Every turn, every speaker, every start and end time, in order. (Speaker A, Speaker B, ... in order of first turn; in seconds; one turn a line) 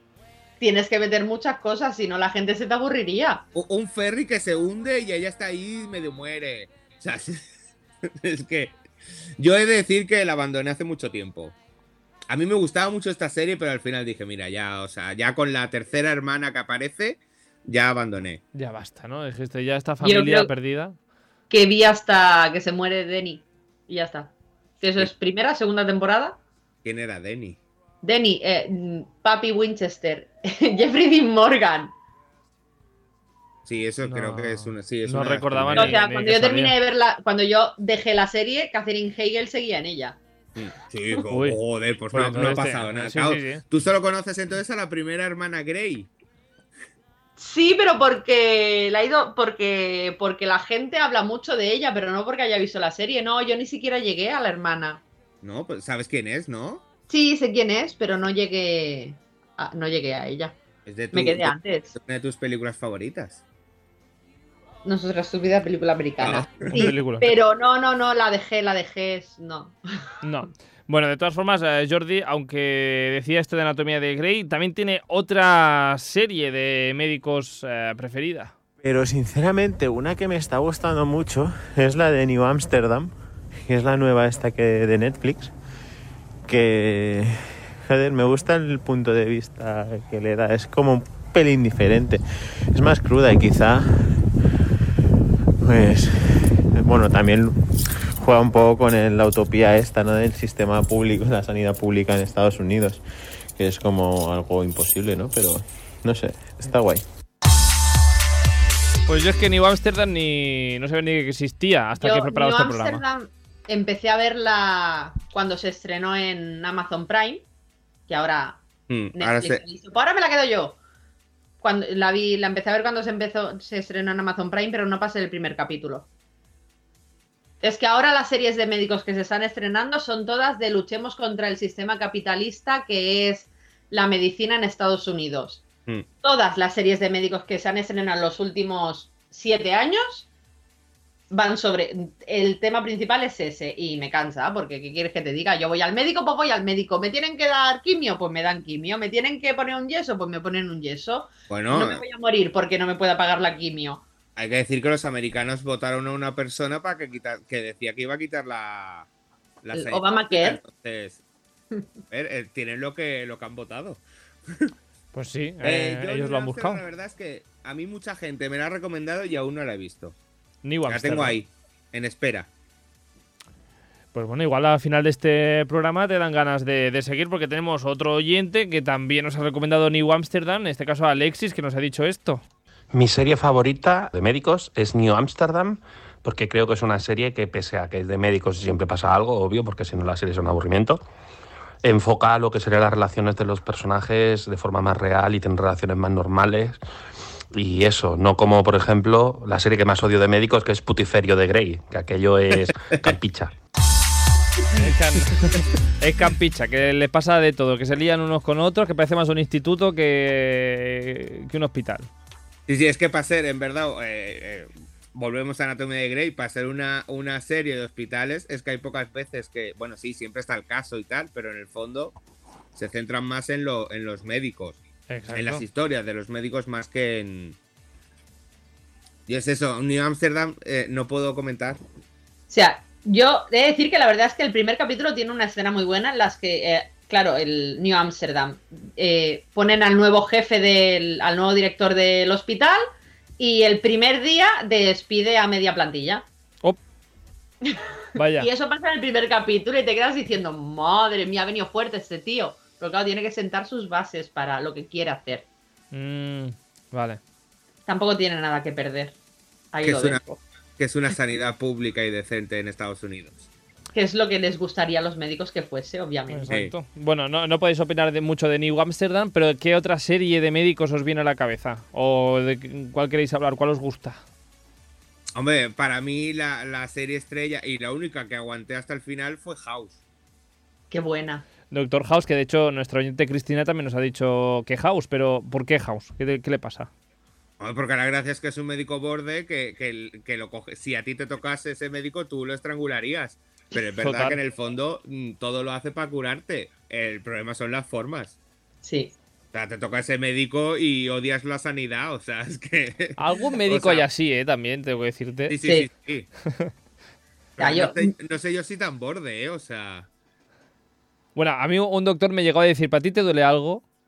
Speaker A: 0.6-3.5
Speaker B: 3.5-7.5
Speaker B: 8.1-8.8
Speaker B: 9.4-11.5
Speaker B: 12.3-18.4
Speaker C: 18.5-20.9
Speaker A: 20.0-20.5
Speaker A: 21.5-26.4
Speaker B: 26.8-27.6
Speaker A: 28.0-31.9
Speaker B: 33.7-36.0
Speaker C: 34.0-36.8
Speaker A: 35.8-40.2
Speaker B: 40.6-46.1
Speaker C: 41.3-41.6
Speaker C: 42.1-43.6
Speaker A: 47.4-55.0
Speaker B: 55.4-56.8
Speaker A: 57.1-60.6
Speaker B: 60.9-63.4
Speaker A: 61.1-61.9
Speaker A: 64.8-69.8
Speaker B: 66.2-66.9
Speaker C: 66.7-67.3
Speaker C: 70.2-78.5
Speaker D: 78.8-85.5
Speaker D: 86.5-94.3
Speaker D: 95.6-107.1
Speaker C: 109.1-113.0
Speaker A: 112.0-117.4
Speaker A: 118.1-118.6
Speaker B: 118.9-119.6
Speaker A: 119.1-120.8
Speaker A: 121.6-126.1
Speaker A: 127.6-135.6
Speaker A: 136.2-140.3
Speaker A: 141.3-154.0
Speaker B: 151.5-152.0
Speaker B: 154.4-159.1
Speaker B: 159.6-161.2
Speaker A: 159.7-160.6
Speaker B: 162.1-164.0
Speaker C: 165.1-166.8
Speaker B: 165.6-170.2
Speaker C: 170.6-171.4
Speaker B: 170.9-172.5
Speaker C: 174.1-182.4
Speaker E: 182.9-191.0
Speaker E: 191.8-196.8
Speaker E: 197.5-203.5
Speaker C: 204.8-212.1
Speaker B: 212.7-222.1
Speaker B: 222.8-227.6
Speaker C: 225.1-225.6
Speaker B: 229.3-231.8
Speaker A: 232.5-242.8
Speaker A: 243.4-246.3
Speaker A: 247.6-255.5
Speaker C: 248.2-248.5
Speaker C: 255.9-257.2
Speaker A: 257.9-259.2
Speaker A: 259.7-260.4
Speaker B: 259.8-260.2
Speaker B: 260.8-263.5
Speaker A: 263.9-266.5
Speaker C: 266.3-274.2
Speaker B: 275.4-280.0
Speaker A: 280.9-281.4
Speaker C: 281.7-286.9
Speaker B: 287.6-298.4
Speaker C: 294.0-294.4
Speaker A: 298.8-299.1
Speaker B: 299.5-304.1
Speaker C: 303.2-305.6
Speaker B: 305.5-306.3
Speaker B: 307.6-310.1
Speaker A: 307.6-308.1
Speaker C: 311.4-313.8